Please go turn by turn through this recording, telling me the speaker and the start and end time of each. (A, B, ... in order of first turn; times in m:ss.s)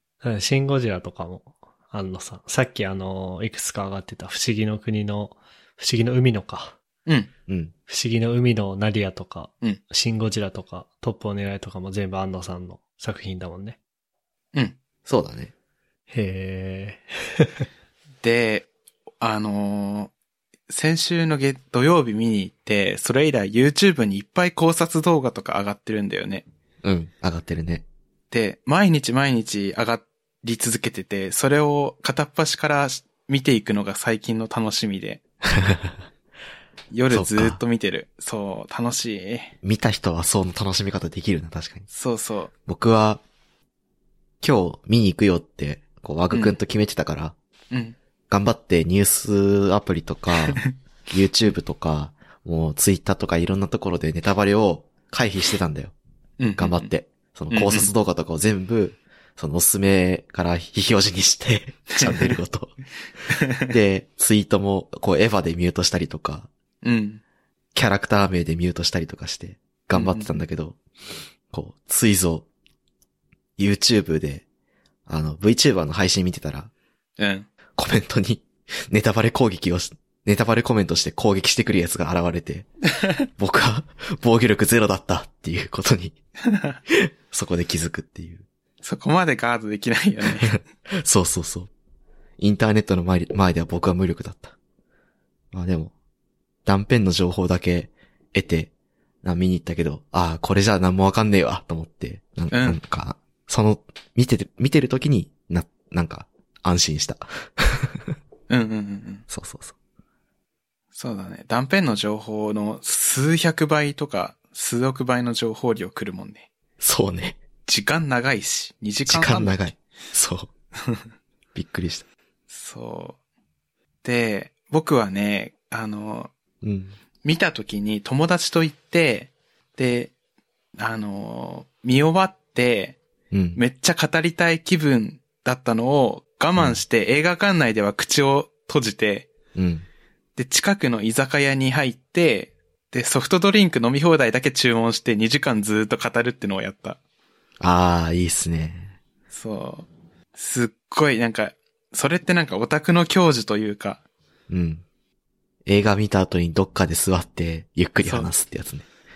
0:00.2-0:06.8 A
0:07.5-0:07.7 B
0:07.9-0:13.8 A
0:15.0-0:15.5 B
0:16.1-0:17.6 A
0:18.2-0:18.7 C
0:19.2-0:20.1 C
0:20.7-0:26.4 C
0:26.8-0:27.8 B
0:28.3-0:35.2 C
0:35.5-0:36.0 B
0:36.9-0:39.5 C
0:37.1-0:37.6 B
0:39.6-0:41.8 B
0:41.9-0:42.5 C
0:42.6-0:43.2 B
0:44.4-0:47.3 B
0:46.3-0:46.6 C
0:47.7-0:48.0 C
0:48.3-0:55.9 B
0:56.4-0:56.9 C
0:56.6-1:02.7 B
0:57.5-0:57.9 C
1:02.0-1:02.4 C
1:03.6-1:06.5 B
1:06.8-1:07.2 C
1:07.7-1:10.8 B
1:09.9-1:10.4 C
1:11.5-1:12.5 B
1:13.6-1:14.4 B
1:15.1-1:16.7 B
1:17.2-1:17.5 C
1:17.8-1:22.7 B
1:23.4-1:26.2 B
1:26.5-1:26.8 C
1:26.9-1:28.4 B
1:28.8-1:30.6 C
1:30.2-1:31.7 B
1:32.4-1:34.5 B
1:35.5-1:35.9 B
1:36.6-1:38.7 B
1:39.2-1:48.1 B
1:42.5-1:42.8 C
1:48.5-1:49.2 C
1:49.3-1:49.7 B
1:50.9-1:56.5 C
1:56.8-1:57.4 B
1:57.7-1:59.7 C
1:59.1-2:00.5 B
2:01.5-2:02.0 B
2:02.5-2:03.2 C
2:04.0-2:06.3 C
2:06.6-2:06.9 B
2:07.2-2:10.1 C
2:10.8-2:13.0 C
2:13.3-2:13.6 B
2:13.6-2:19.3 C
2:19.5-2:19.8 B
2:20.4-2:27.0 C
2:27.6-2:29.0 B
2:29.3-2:34.0 C
2:34.5-2:34.8 B
2:35.6-2:38.8 B
2:38.0-2:38.3 C